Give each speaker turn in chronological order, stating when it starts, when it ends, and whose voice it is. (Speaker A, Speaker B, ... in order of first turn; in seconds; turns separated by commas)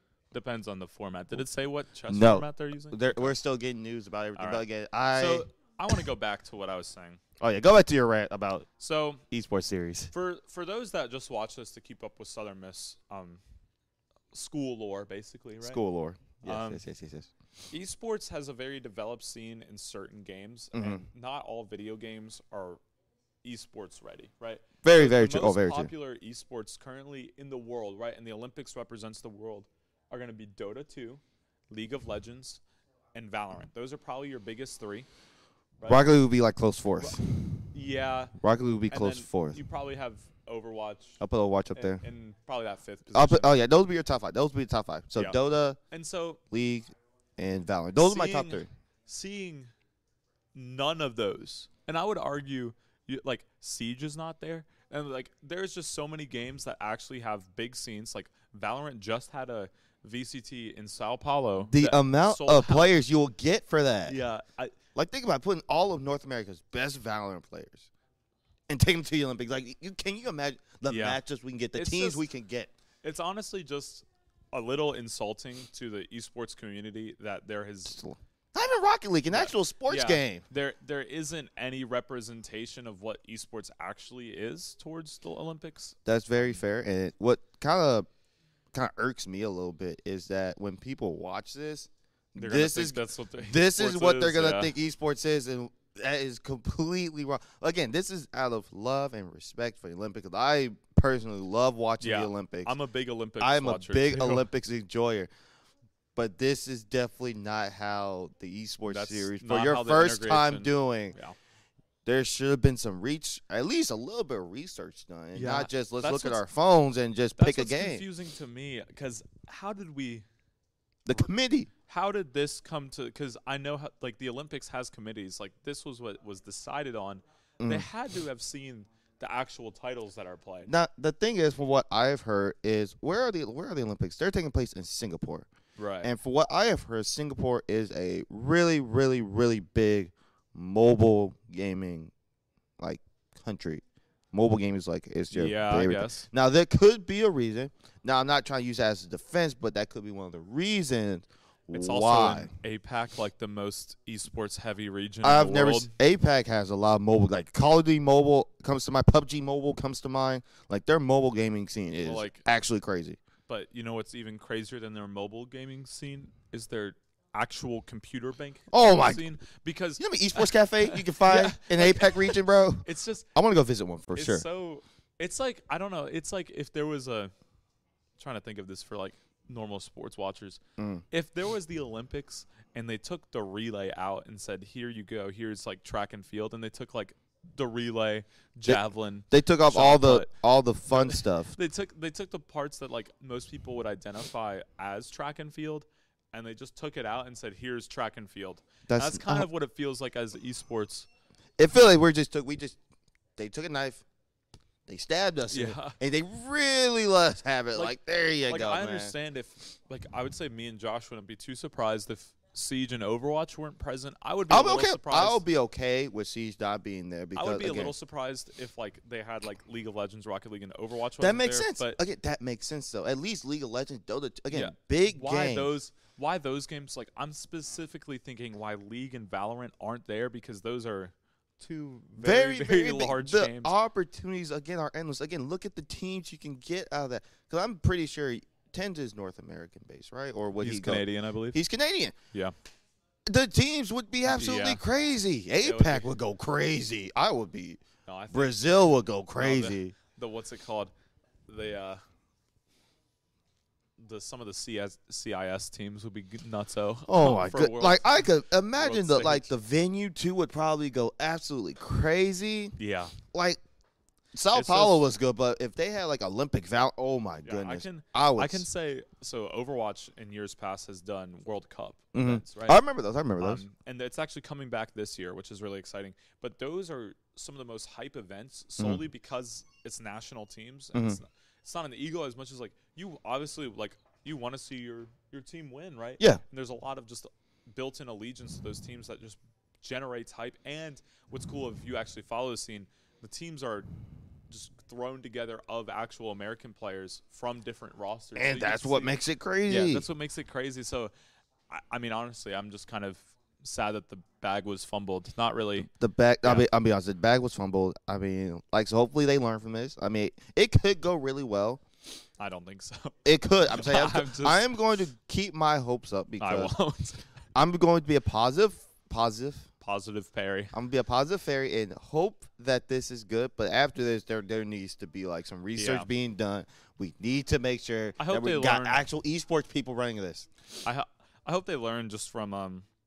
Speaker A: 0.3-3.3, Speaker B: 2.1-5.4, Speaker A: 4.3-7.2, Speaker B: 7.4-8.7, Speaker A: 8.8-9.2, Speaker B: 9.3-10.1, Speaker A: 10.1-13.4, Speaker A: 14.3-15.8, Speaker B: 15.6-17.3, Speaker A: 16.4-16.8, Speaker A: 17.7-22.8, Speaker B: 20.7-21.0, Speaker A: 23.4-32.6, Speaker B: 24.8-25.9, Speaker A: 33.1-35.1, Speaker A: 35.8-36.1, Speaker B: 35.8-37.5, Speaker A: 37.7-38.3, Speaker B: 38.4-39.6, Speaker A: 38.9-41.2, Speaker B: 41.2-42.0, Speaker A: 41.7-43.6, Speaker B: 43.1-45.8, Speaker A: 45.9-46.4, Speaker B: 46.5-46.9, Speaker B: 47.4-48.7, Speaker A: 48.0-49.7, Speaker A: 50.5-62.9, Speaker B: 61.6-64.2, Speaker A: 64.1-64.8, Speaker B: 64.9-67.9, Speaker B: 68.7-72.7, Speaker A: 70.9-71.2, Speaker A: 71.7-72.2, Speaker A: 73.0-78.0, Speaker B: 77.9-80.4, Speaker A: 79.3-86.0, Speaker B: 86.0-88.1, Speaker B: 88.7-102.7, Speaker A: 92.3-94.7, Speaker A: 102.0-104.5, Speaker B: 103.4-105.3, Speaker B: 106.2-111.1, Speaker A: 108.8-111.3, Speaker B: 112.0-118.0, Speaker A: 115.3-116.4, Speaker A: 117.4-120.2, Speaker B: 121.0-121.7, Speaker A: 121.9-130.7, Speaker B: 127.6-127.9, Speaker B: 130.7-135.5, Speaker A: 135.8-136.1, Speaker B: 136.0-142.1, Speaker B: 142.8-152.5, Speaker A: 145.3-146.3, Speaker A: 151.7-155.9, Speaker B: 155.2-163.2, Speaker A: 162.0-162.4, Speaker A: 163.5-173.3, Speaker B: 168.7-169.2, Speaker B: 170.0-174.4, Speaker A: 174.1-177.3, Speaker A: 178.2-180.6, Speaker B: 180.8-181.0, Speaker A: 181.1-190.3, Speaker B: 189.3-191.5, Speaker A: 190.9-201.1, Speaker B: 198.9-199.5, Speaker B: 201.6-202.8, Speaker B: 203.4-204.0, Speaker B: 204.9-209.1, Speaker A: 205.5-205.9, Speaker A: 208.4-215.4, Speaker B: 214.5-217.9, Speaker A: 217.3-222.0, Speaker B: 221.2-225.7, Speaker A: 224.5-233.7, Speaker B: 232.2-242.1, Speaker A: 240.6-241.6, Speaker B: 243.3-247.8, Speaker A: 244.3-244.8, Speaker A: 245.6-246.1, Speaker A: 248.1-248.7, Speaker B: 248.3-249.9, Speaker A: 249.4-250.9, Speaker A: 251.5-252.0, Speaker A: 254.0-259.5, Speaker B: 257.1-262.7, Speaker A: 262.8-263.1, Speaker B: 263.3-263.6, Speaker B: 264.3-268.6, Speaker A: 264.5-265.1, Speaker A: 267.4-272.8, Speaker B: 272.1-273.6, Speaker A: 273.4-293.9, Speaker B: 278.8-279.0, Speaker B: 280.9-281.2, Speaker A: 294.5-301.1, Speaker B: 298.4-300.1, Speaker A: 301.7-305.9, Speaker B: 305.9-311.8, Speaker A: 312.4-313.1, Speaker B: 313.2-316.7, Speaker A: 313.6-314.8, Speaker A: 316.4-317.2, Speaker B: 317.5-319.7, Speaker A: 319.8-320.7, Speaker B: 320.7-330.5, Speaker A: 325.8-326.1, Speaker A: 328.2-329.0, Speaker A: 330.8-332.9